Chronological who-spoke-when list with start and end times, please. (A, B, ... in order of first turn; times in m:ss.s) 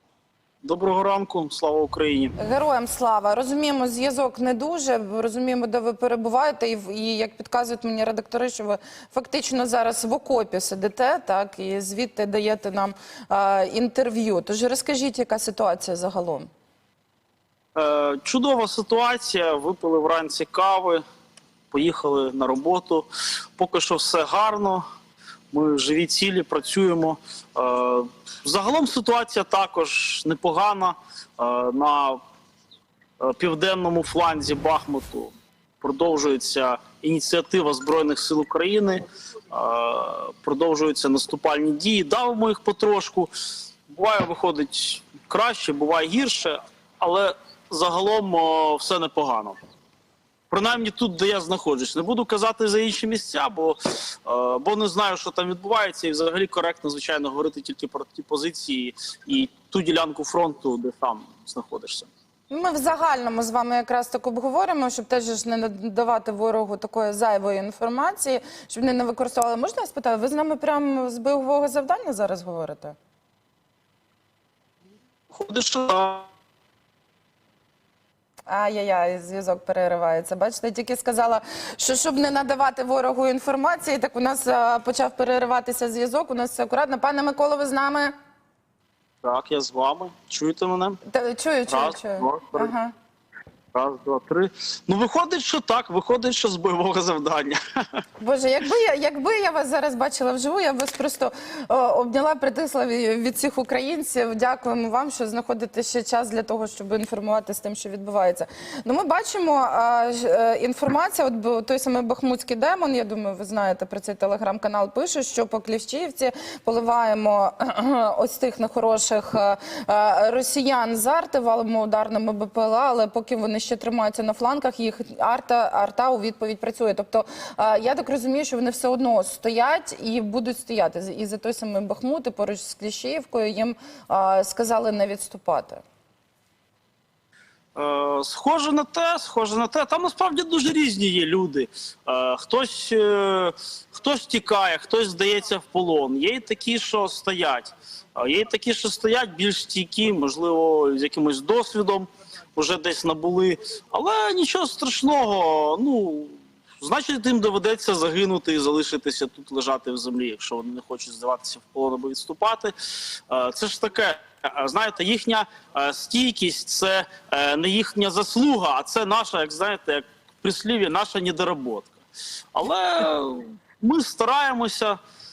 0:00.6-0:02.4 A
0:02.4-0:16.5 B
0:17.8-0:21.0 A
0:21.7-0:24.8 A
0:25.5-0:32.2 A
0:33.2-0:43.3 A
0:43.9-0:49.6 A
0:50.5-1:02.1 A
1:02.5-1:13.0 B
1:15.3-1:16.3 A
1:18.5-1:28.1 B
1:29.2-1:31.0 A
1:31.1-1:32.9 B
1:31.7-1:32.7 A
1:33.7-1:37.6 A
1:38.2-2:15.8 B
2:17.8-2:52.0 A
2:52.5-2:55.0 A